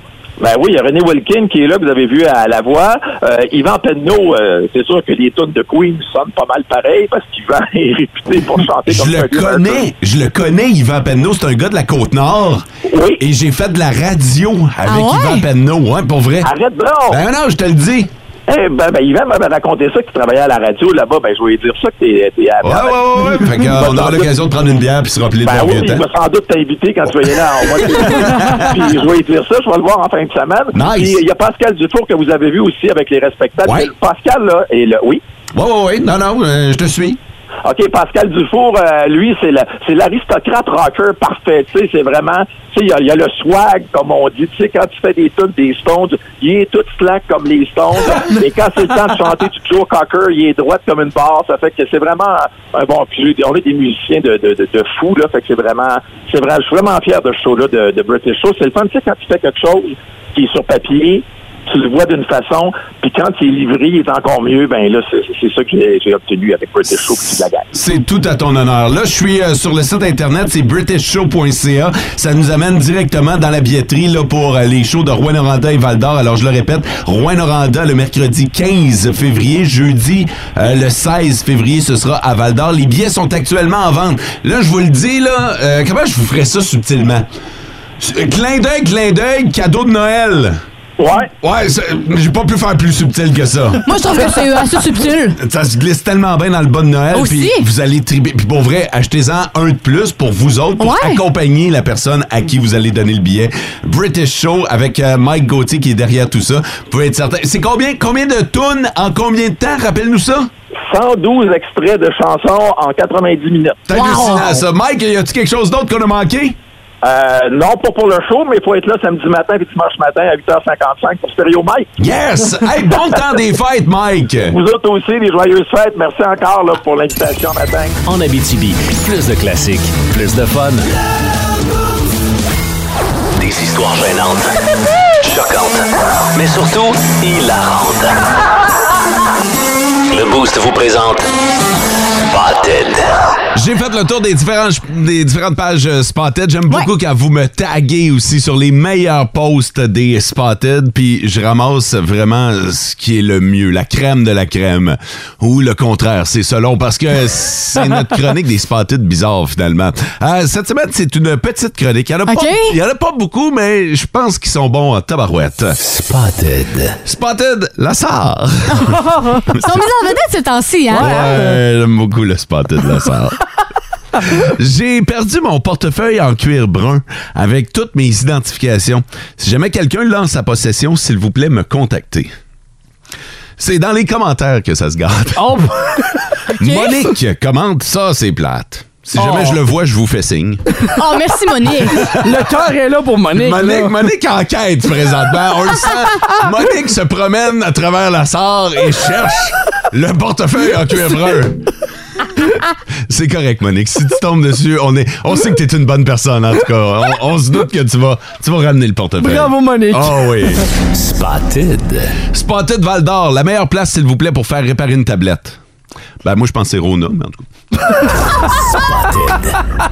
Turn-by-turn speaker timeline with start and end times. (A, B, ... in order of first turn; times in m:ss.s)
0:00.4-0:09.8 A
0:08.9-0:12.6 B
0:12.9-0:13.2 A
0:13.2-0:16.5 B
0:14.8-0:15.4 C
0:16.4-0:17.2 A
0:17.1-0:18.1 B
0:18.5-0:24.3 A
0:22.6-0:26.0 B
0:25.4-0:35.2 A
0:27.8-0:28.8 B
0:30.7-0:31.2 B
0:33.6-0:33.9 B
0:35.5-0:37.2 B
0:37.6-1:07.6 A
1:07.7-1:27.2 B
1:28.0-1:30.6 B
1:31.0-1:31.3 A
1:31.4-1:33.8 B
1:33.8-1:35.4 C
1:35.4-1:50.5 B
1:37.1-1:37.6 C
1:40.8-1:41.2 C
1:50.9-1:53.8 A
1:53.9-1:56.6 B
1:53.9-1:54.5 C
1:57.0-2:01.9 A
2:02.0-2:04.6 B
2:04.5-2:07.9 A
2:08.0-2:10.9 D
2:13.4-2:14.6 D
2:15.2-2:18.2 D
2:20.1-2:21.3 D
2:22.3-2:23.1 D
2:23.5-2:45.8 B
2:42.3-2:42.7 C
2:45.8-2:47.0 D
2:47.0-2:49.0 B
2:49.5-2:51.3 C
2:50.9-2:53.4 B
2:54.4-3:02.3 B
3:03.6-3:05.6 B
3:05.4-3:06.1 E
3:06.5-3:10.6 B
3:06.6-3:06.9 C
3:09.2-3:09.6 E
3:10.9-3:12.1 C
3:12.0-3:12.4 B
3:12.2-3:13.9 E
3:13.4-3:21.7 B
3:23.1-3:30.6 B
3:29.2-3:30.6 E
3:30.9-3:32.2 D
3:32.3-3:35.6 B
3:36.2-3:37.5 B
3:38.4-3:39.6 D